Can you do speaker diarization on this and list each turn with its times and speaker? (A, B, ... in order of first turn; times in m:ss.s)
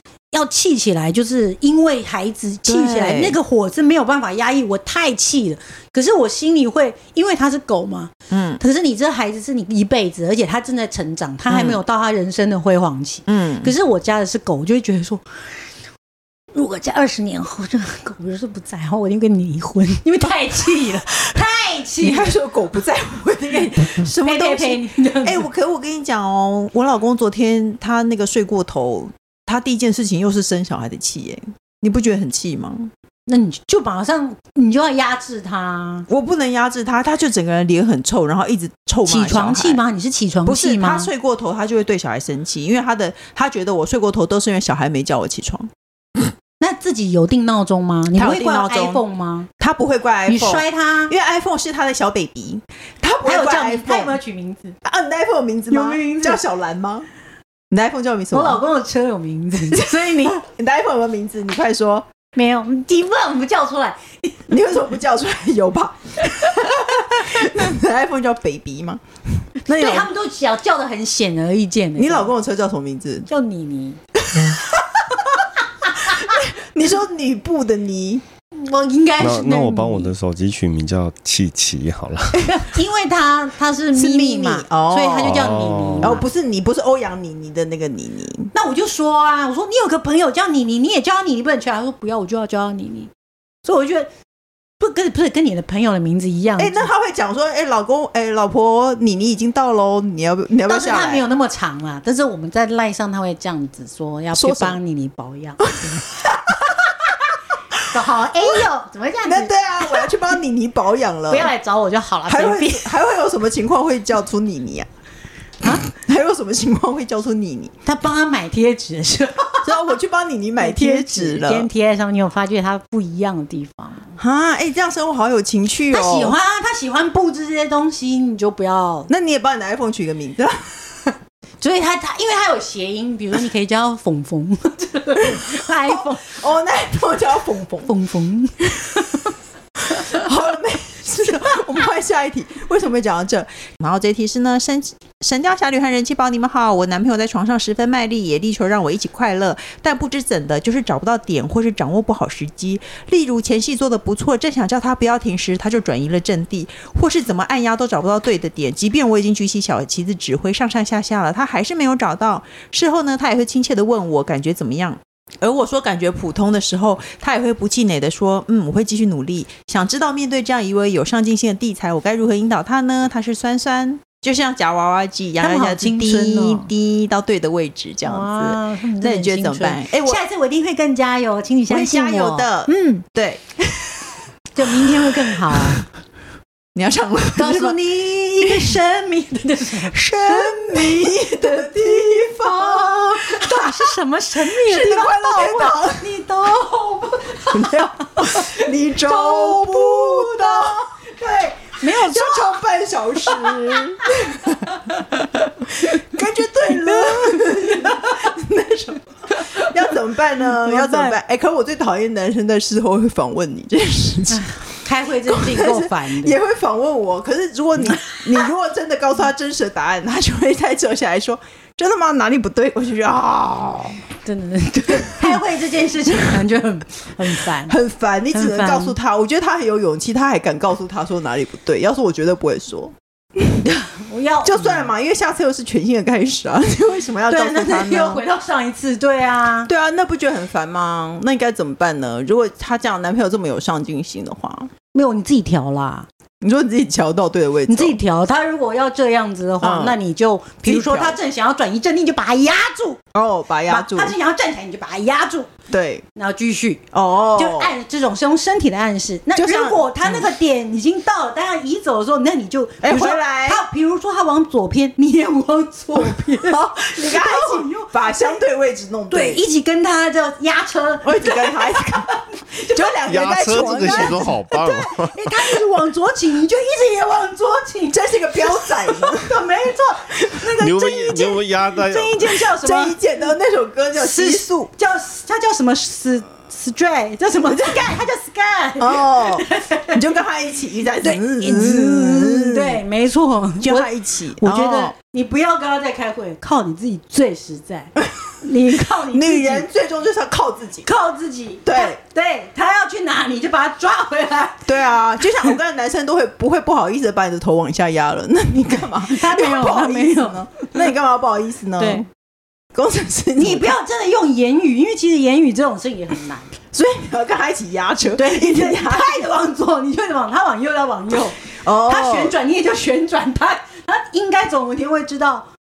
0:00.3-0:15.4 A
0:02.7-0:03.4 B
0:08.3-0:08.6 B
0:11.5-0:11.8 B
0:13.3-0:13.7 B
0:16.5-0:22.3 A
0:22.0-0:32.9 B
0:24.2-0:25.5 A
0:33.3-0:36.1 A
0:36.1-0:39.8 B
0:39.1-0:41.1 A
0:40.4-0:46.2 B
0:46.6-0:49.5 A
0:48.1-0:49.0 B
0:49.6-0:54.2 B
0:50.3-0:51.2 A
0:53.2-0:54.8 A
0:54.8-0:57.1 B
0:55.7-0:56.4 A
0:57.7-0:58.6 B
0:58.3-1:00.4 A
0:59.7-1:02.1 B
1:02.4-1:04.5 A
1:04.5-1:09.0 B
1:09.6-1:10.1 B
1:09.7-1:12.3 A
1:12.0-1:13.3 B
1:13.3-1:14.0 A
1:16.0-1:18.2 B
1:18.5-1:20.1 A
1:19.2-1:22.5 C
1:22.5-1:26.2 A
1:23.9-1:28.5 B
1:25.2-1:26.2 C
1:28.5-1:33.1 A
1:33.6-1:34.1 A
1:34.8-1:36.9 A
1:36.6-1:41.2 B
1:40.7-1:46.7 A
1:44.3-1:44.8 B
1:45.6-1:46.6 B
1:47.9-1:50.1 A
1:49.3-1:51.5 B
1:51.3-1:52.9 A
1:52.3-1:54.9 B
1:55.6-1:57.7 B
1:57.8-2:00.0 A
1:59.6-2:01.7 B
2:00.6-2:04.2 A
2:04.2-2:06.4 B
2:05.9-2:09.1 A
2:09.1-2:10.7 B
2:11.6-2:16.4 A
2:15.3-2:17.9 B
2:17.8-2:19.2 A
2:20.0-3:00.2 B
2:55.4-2:56.7 A
2:58.0-3:03.1 A
3:01.7-3:04.0 B
3:04.5-3:05.9 A
3:04.8-3:05.8 B
3:06.8-3:07.8 B
3:07.4-3:22.6 A
3:08.4-3:08.7 B
3:09.9-3:16.1 B
3:17.4-3:21.0 B
3:21.8-3:24.6 B
3:23.2-3:25.1 A
3:25.8-3:28.3 A
3:25.8-3:34.6 B
3:29.4-3:29.6 A
3:30.4-3:31.2 A
3:34.3-3:36.4 A
3:35.3-3:44.0 B
3:44.2-3:47.8 A
3:44.9-3:45.4 B
3:47.4-3:52.9 B
3:48.3-3:49.0 A
3:53.6-3:54.9 A
3:54.4-3:58.2 B
3:57.3-3:59.7 A
3:59.7-4:04.7 B
4:04.9-4:06.1 A
4:06.4-4:08.0 B
4:07.7-4:13.0 A
4:09.6-4:10.0 B
4:10.6-4:11.2 B
4:13.1-4:14.2 B
4:13.7-4:15.5 A
4:15.7-4:16.0 B
4:16.2-4:28.4 A
4:16.9-4:17.8 B
4:19.3-4:20.3 B
4:22.8-4:23.7 B
4:26.0-4:29.4 B
4:29.1-4:43.3 A
4:31.0-4:32.1 B
4:32.7-4:34.3 B
4:33.1-4:35.5 C
4:37.9-4:39.4 B
4:40.6-4:42.4 C
4:42.4-4:44.7 B
4:44.0-4:50.0 A
4:47.4-4:48.0 B
4:48.8-4:52.8 B
4:51.0-4:59.7 A
4:53.6-4:54.9 B
4:58.9-5:00.9 B
5:00.8-5:04.8 A
5:01.6-5:02.0 B
5:04.7-5:12.1 B
5:09.0-5:10.9 A
5:11.8-5:12.0 A
5:12.7-5:13.8 B
5:13.4-5:16.6 A
5:16.7-5:19.3 B
5:18.2-5:25.5 A
5:21.1-5:22.4 B